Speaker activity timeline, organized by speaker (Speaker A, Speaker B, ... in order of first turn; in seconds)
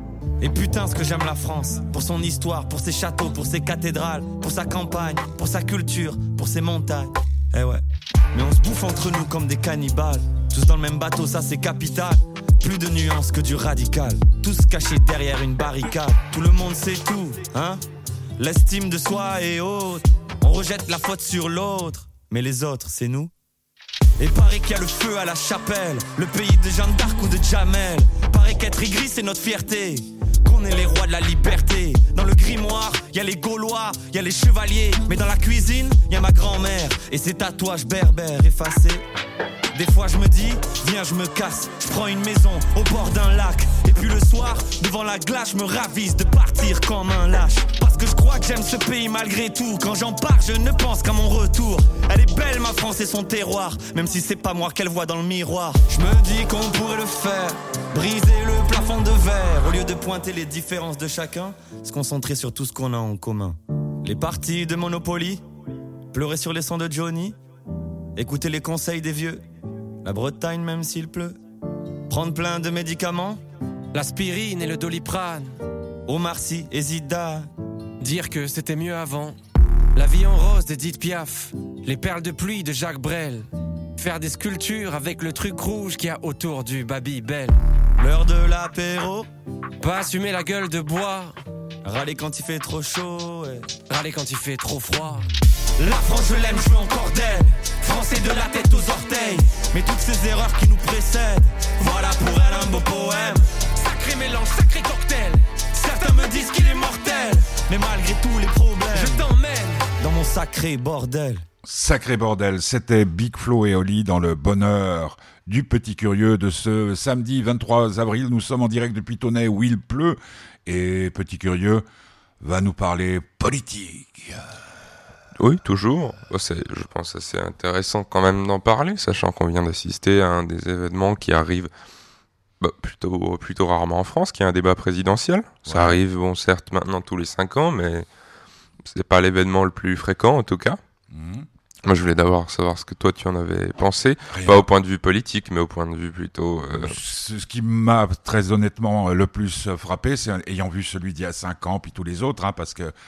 Speaker A: 0.4-17.8, 18.4-23.3, 24.2-39.0, 39.7-65.4, 66.1-67.4, 68.2-69.4, 70.0-71.4, 72.1-73.4, 76.1-77.5, 88.0-89.3, 91.8-93.7, 95.8-103.5, 105.8-109.2, 110.0-111.5
Speaker B: 73.9-75.5, 78.0-79.4, 79.9-87.6, 89.8-91.4, 93.9-95.3, 98.1-98.7, 103.6-107.3, 108.9-109.9
Speaker C: 111.6-121.8, 122.4-124.4, 135.7-136.0, 141.1-141.5, 144.3-144.7, 146.7-152.9
Speaker D: 125.4-131.7, 132.6-138.1, 138.8-140.8, 141.8-147.0